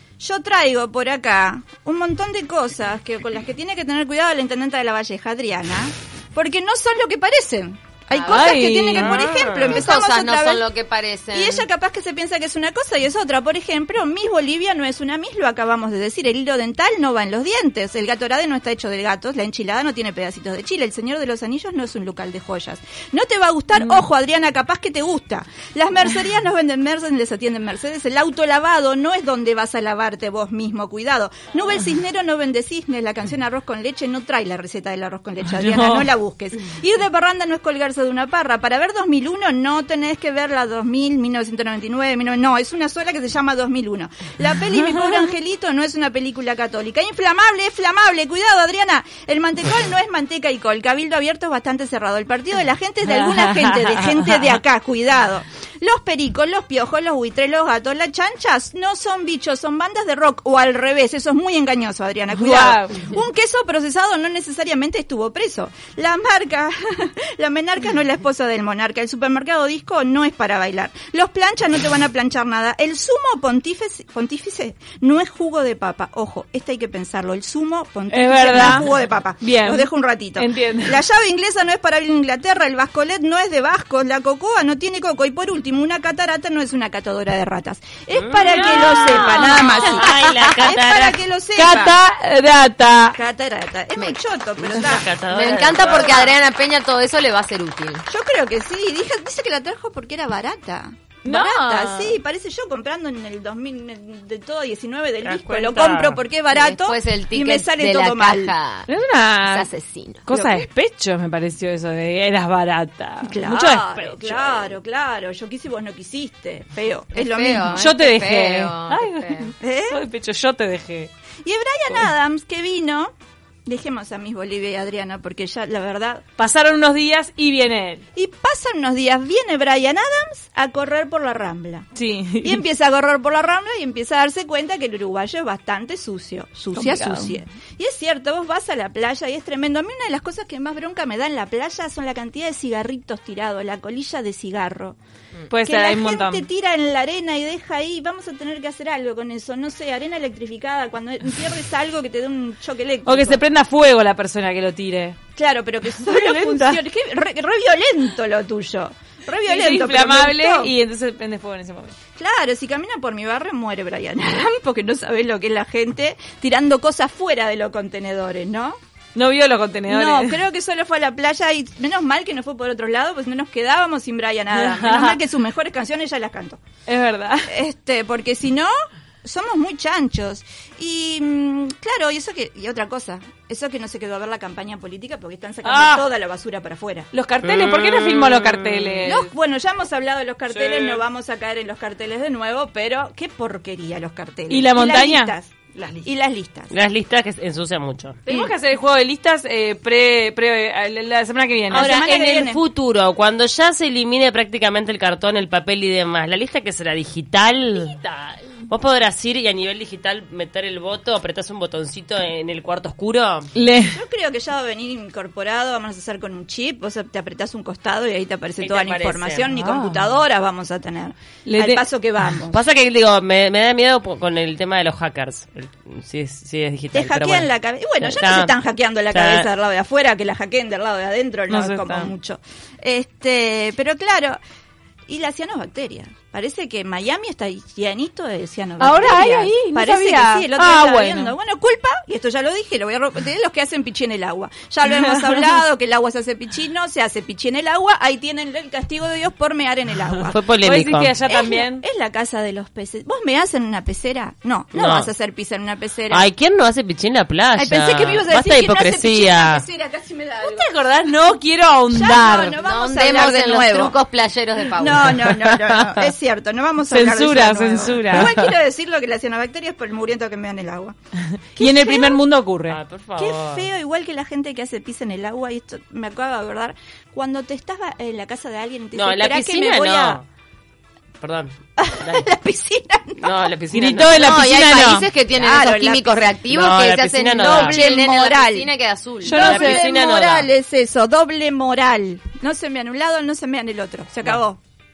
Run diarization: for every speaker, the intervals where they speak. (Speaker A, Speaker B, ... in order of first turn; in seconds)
Speaker A: 0.2-10.7, 11.3-92.0, 93.2-95.0, 95.8-96.1, 98.1-108.5, 110.3-110.7, 113.2-117.9, 119.6-120.0, 121.4-123.1, 123.7-126.2, 128.2-131.9, 132.4-145.0, 145.6-153.4, 155.4-160.7, 162.2-168.8, 169.9-176.6, 177.5-178.7, 179.2-187.1, 189.1-196.7, 201.7-202.6, 213.9-222.6, 226.9-234.4, 235.1-250.4, 251.3-256.3, 257.6-260.7, 261.9-264.0, 264.8-270.9, 271.6-272.2, 273.2-280.2, 281.8-283.5, 285.4-286.3, 287.4-288.7, 289.2-294.6
Speaker B: 8.1-11.7, 95.3-98.1, 106.5-108.9, 109.5-110.2, 117.1-119.5, 262.6-265.3, 284.2-289.4
Speaker C: 8.3-8.9, 62.4-63.0, 78.1-78.8, 79.4-79.8, 80.4-80.9, 91.6-93.2, 101.3-102.1, 108.9-109.7, 110.3-113.8, 117.8-121.1, 126.4-128.0, 132.0-132.5, 136.8-137.2, 145.5-146.4, 153.1-155.2, 156.2-156.8, 159.5-161.9, 169.2-170.1, 176.9-177.5, 187.2-189.2, 194.5-195.3, 198.3-201.8, 213.6-214.0, 221.5-221.8, 231.5-231.9, 239.0-241.2, 250.7-251.8, 260.5-262.3, 266.9-268.4, 271.6-272.8, 283.8-285.1
Speaker D: 8.9-9.9, 88.1-91.2, 94.6-96.4, 105.2-106.2, 113.9-114.7, 187.4-189.1, 196.7-198.2, 201.7-208.0, 208.7-213.5, 218.6-219.5, 222.5-227.5, 228.0-228.6, 229.1-229.5, 250.2-251.2, 254.7-255.1, 256.1-259.6, 272.7-273.7, 278.9-280.3, 281.2-282.3, 283.2-284.4, 286.5-287.8, 289.3-290.5